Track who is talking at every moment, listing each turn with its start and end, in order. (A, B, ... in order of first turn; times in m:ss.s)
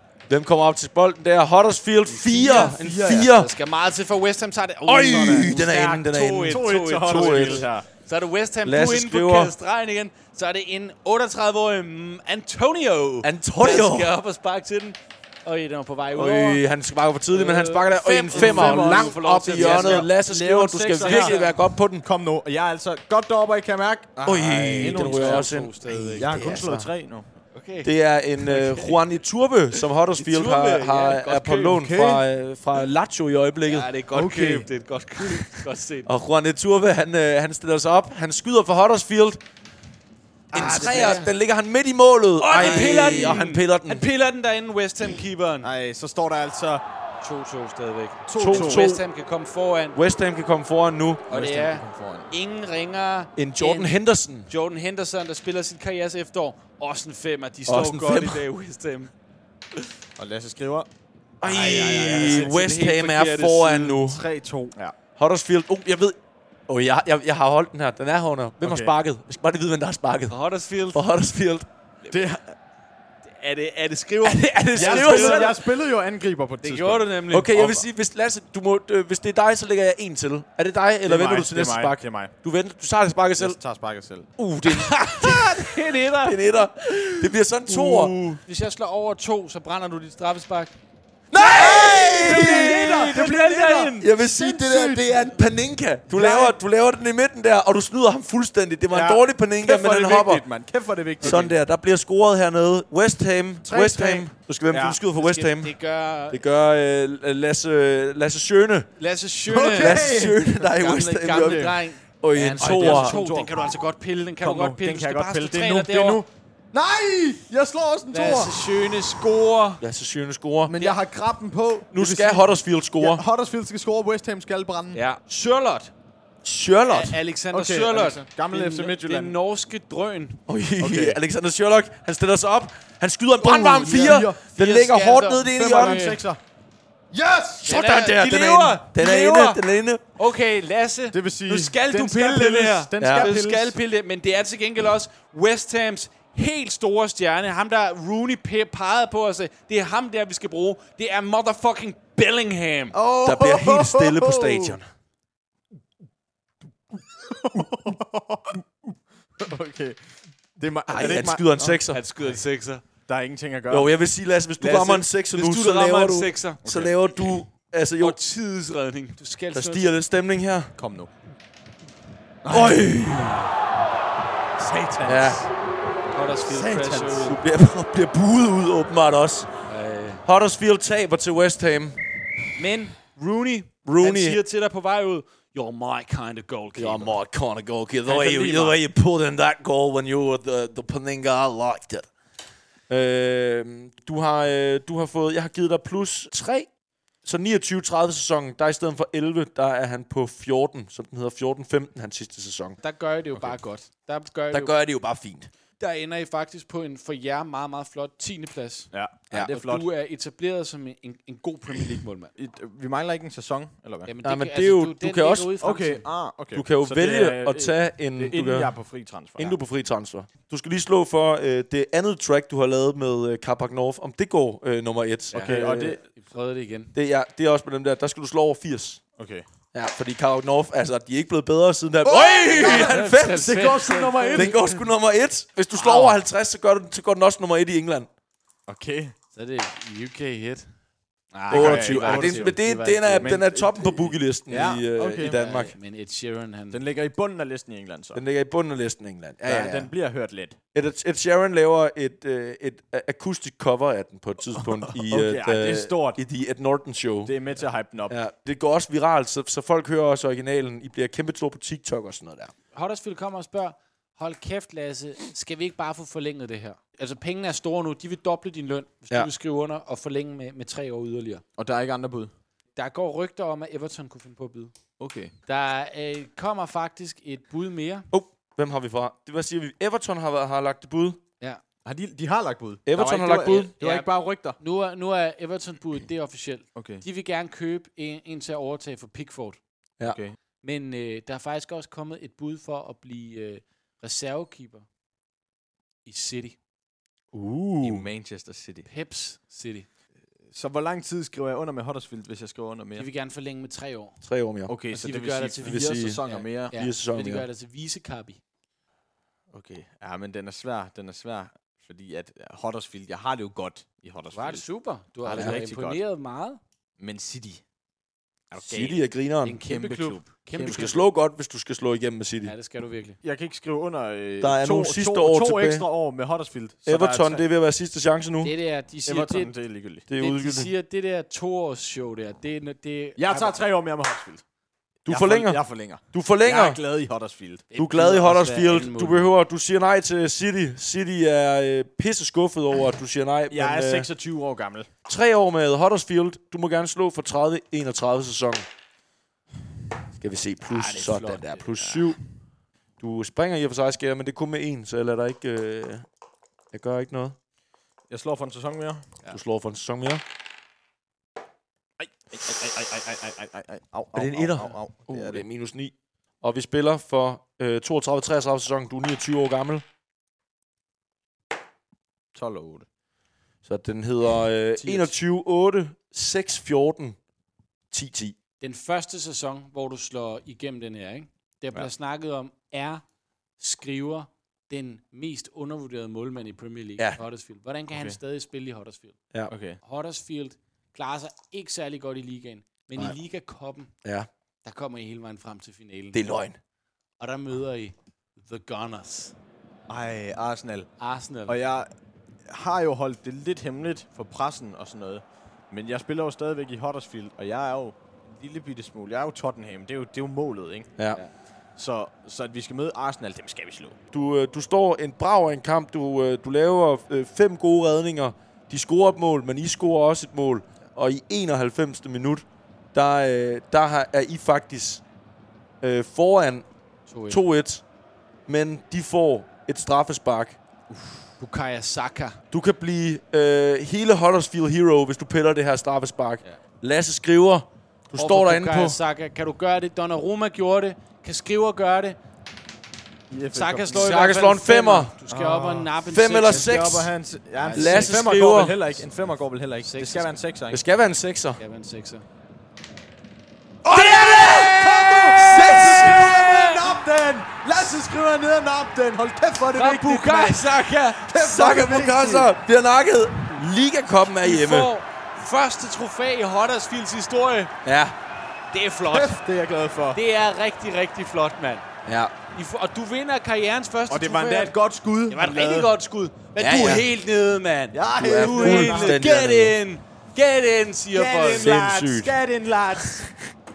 0:00.3-0:03.5 A
0:02.1-0:16.6 B
0:02.3-0:03.3 C
0:04.8-0:07.6 A
0:05.1-0:05.7 C
0:06.4-0:07.9 C
0:08.6-0:09.5 A
0:13.2-0:14.1 A
0:16.1-0:22.0 A
0:17.3-0:20.1 B
0:18.3-0:21.4 C
0:21.0-0:21.6 B
0:22.0-0:25.5 C
0:24.2-0:26.9 A
0:24.6-0:26.6 B
0:26.2-0:27.2 C
0:27.5-0:27.9 B
0:27.8-0:33.9 A
0:28.4-0:29.0 B
0:30.2-0:31.8 B
0:31.2-0:32.2 C
0:33.7-0:36.1 B
0:34.1-0:34.7 C
0:36.0-0:39.4 A
0:40.5-0:41.3 B
0:40.5-0:44.1 A
0:42.4-0:45.7 B
0:42.6-0:43.4 C
0:45.6-0:46.8 C
0:47.2-0:50.0 B
0:48.3-0:48.9 C
0:48.4-0:49.0 A
0:49.9-0:51.2 A
0:51.3-0:52.3 C
0:51.3-0:59.1 B
0:53.4-0:54.5 A
0:57.7-0:58.4 A
1:00.2-1:00.9 C
1:01.4-1:04.2 A
1:01.4-1:02.5 C
1:01.4-1:04.3 B
1:04.1-1:04.9 C
1:05.2-1:06.2 A
1:06.7-1:10.3 A
1:08.6-1:08.9 C
1:10.3-1:11.0 B
1:10.9-1:11.7 A
1:12.1-1:12.5 C
1:13.3-1:15.5 B
1:14.2-1:15.6 A
1:14.8-1:17.1 C
1:16.6-1:17.8 B
1:17.3-1:23.6 A
1:21.0-1:22.3 C
1:23.4-1:24.3 C
1:24.4-1:28.2 A
1:24.7-1:26.4 B
1:27.0-1:30.7 B
1:31.3-1:33.4 A
1:31.4-1:35.3 C
1:31.4-1:34.1 B
1:33.9-1:40.4 A
1:36.2-1:36.4 B
1:36.2-1:36.5 C
1:38.9-1:41.5 C
1:41.2-1:45.7 A
1:43.6-1:44.3 B
1:44.7-1:45.0 C
1:45.1-1:46.4 B
1:46.3-1:48.9 A
1:49.0-1:56.2 B
1:49.5-1:50.4 C
1:49.7-1:53.2 A
1:51.3-1:51.8 C
1:52.6-1:53.7 C
1:54.4-1:58.5 C
1:58.1-1:59.8 B
1:59.8-2:00.7 A
2:00.7-2:05.0 C
2:01.9-2:03.2 A
2:04.9-2:05.9 B
2:06.4-2:07.2 A
2:06.9-2:10.4 B
2:07.5-2:09.4 C
2:10.5-2:16.1 A
2:10.8-2:11.2 C
2:13.4-2:14.4 C
2:13.4-2:16.2 B
2:15.5-2:16.4 C
2:17.1-2:17.7 C
2:17.6-2:20.0 A
2:17.6-2:19.6 B
2:20.2-2:33.0 B
2:21.1-2:23.8 C
2:23.0-2:23.3 A
2:32.9-2:34.8 C
2:33.2-2:34.8 A
2:37.2-2:38.6 C
2:39.4-2:40.0 C
2:40.6-2:42.4 C
2:40.9-2:42.0 A
2:41.9-2:42.8 B
2:43.0-2:43.9 C
2:43.7-2:48.2 A
2:44.6-2:46.6 B
2:46.6-2:46.9 C
2:48.0-2:49.9 B
2:49.5-2:50.7 A
2:50.8-2:51.1 C
2:52.4-2:53.4 C
2:52.5-2:53.5 A
2:54.6-2:55.5 C
2:55.0-2:55.4 A
2:56.1-2:57.4 B
2:56.4-2:57.3 C
2:57.2-2:59.5 A
2:59.7-3:00.2 B
3:00.2-3:02.0 A
3:02.5-3:07.2 B
3:03.8-3:04.4 A
3:06.7-3:12.1 A
3:08.0-3:08.8 B
3:12.9-3:16.7 A
3:17.2-3:22.8 A
3:22.8-3:24.7 B
3:24.5-3:25.5 A
3:25.8-3:32.3 B
3:28.9-3:29.9 C
3:32.4-3:34.1 C
3:34.0-3:36.0 B
3:34.2-3:35.5 A
3:35.6-3:39.6 C
3:36.5-3:38.7 A
3:39.4-3:46.0 A
3:45.3-3:46.9 B
3:45.3-3:46.0 C
3:46.9-3:49.0 A
3:49.2-3:49.4 C
3:49.7-3:53.7 A
3:52.0-3:54.6 C
3:52.4-3:54.8 B
3:54.3-3:58.1 A
3:55.7-3:56.2 B
3:58.7-3:59.1 C
3:59.3-4:00.7 B
4:01.3-4:03.4 B
4:01.5-4:02.6 C
4:01.5-4:05.7 A
4:03.2-4:05.4 C
4:05.2-4:06.8 B
4:06.7-4:08.2 C
4:08.1-4:09.9 A
4:09.4-4:10.6 C
4:10.7-4:17.3 A
4:14.6-4:16.2 C
4:17.2-4:18.2 C
4:18.1-4:22.5 A
4:22.7-4:31.4 B
4:31.6-4:32.3 C
4:32.8-4:34.7 B
4:35.0-4:35.3 C
4:35.5-4:38.1 B
4:38.1-4:41.2 A
4:41.8-4:44.6 C
4:42.9-4:43.7 A
4:43.5-4:49.6 B
4:46.7-4:47.0 C
4:50.0-4:50.4 C
4:50.6-4:54.8 B
4:56.0-4:56.6 B
4:57.3-4:58.1 A
4:57.8-4:58.9 C
4:58.8-4:59.9 B
5:00.5-5:03.1 C
5:03.0-5:04.2 B
5:04.2-5:04.7 A
5:04.7-5:06.8 C
5:04.9-5:08.4 B
5:05.6-5:07.4 A
5:09.5-5:14.6 C
5:14.3-5:16.6 B
5:15.2-5:16.0 C
5:15.3-5:15.6 A
5:17.0-5:17.6 C
5:18.5-5:19.0 C
5:18.6-5:19.6 A
5:19.4-5:21.0 B
5:19.6-5:21.0 C
5:20.6-5:22.5 A
5:22.4-5:23.2 B
5:23.2-5:27.4 C
5:24.4-5:25.8 A
5:26.9-5:28.5 A
5:28.4-5:29.5 B
5:29.0-5:30.1 C
5:30.1-5:30.7 A
5:30.2-5:33.6 B
5:33.2-5:34.4 C
5:35.0-5:35.6 A
5:35.1-5:37.7 C
5:36.1-5:36.8 A
5:37.7-5:39.3 B
5:37.8-5:44.1 A
5:43.5-5:44.9 C
5:45.1-5:48.6 A
5:50.1-5:52.2 A
5:50.6-5:51.7 B
5:51.8-5:52.1 C
5:53.0-5:56.1 A
5:56.7-5:57.4 A
5:58.1-5:59.1 C
5:59.3-6:00.2 A
6:02.0-6:05.4 C
6:04.1-6:09.8 A
6:12.3-6:12.8 C
6:13.6-6:17.2 A
6:14.8-6:15.1 C
6:17.9-6:18.4 A
6:18.6-6:23.0 B
6:23.6-6:29.2 B
6:29.5-6:29.8 C
6:29.8-6:33.9 B
6:34.6-6:36.2 B
6:36.1-6:36.6 A
6:37.2-6:39.3 B
6:39.9-6:40.9 C
6:41.0-6:41.5 B
6:41.5-6:41.9 C
6:42.5-6:50.9 C
6:51.8-6:54.0 C
6:54.1-7:05.0 A
7:05.8-7:06.6 A
7:07.1-7:07.4 B
7:07.3-7:07.8 A
7:08.5-7:10.6 A
7:11.4-7:12.4 B
7:12.5-7:19.0 A
7:18.1-7:22.2 B
7:23.3-7:24.1 C
7:23.5-7:26.8 B
7:23.9-7:25.1 A
7:25.3-7:25.9 C
7:26.1-7:27.1 A
7:26.4-7:30.8 C
7:27.6-7:28.3 B
7:27.7-7:28.8 A
7:29.8-7:30.4 B
7:30.7-7:31.6 A
7:31.6-7:32.2 B
7:33.8-7:40.6 C
7:33.9-7:36.9 B
7:33.9-7:36.6 A
7:39.7-7:41.4 B
7:41.2-7:42.5 C
7:41.3-7:44.9 A
7:44.3-7:47.7 B
7:47.8-7:48.2 A
7:48.7-7:49.4 B
7:49.1-7:50.2 C
7:50.1-7:51.8 B
7:52.0-7:52.3 A
7:52.5-7:54.7 B
7:54.1-7:55.9 C
7:55.3-8:01.7 B
7:56.6-7:57.0 A
7:57.9-7:59.2 C
7:58.2-7:59.8 A
8:01.1-8:03.3 C
8:01.5-8:02.4 A
8:03.0-8:03.3 A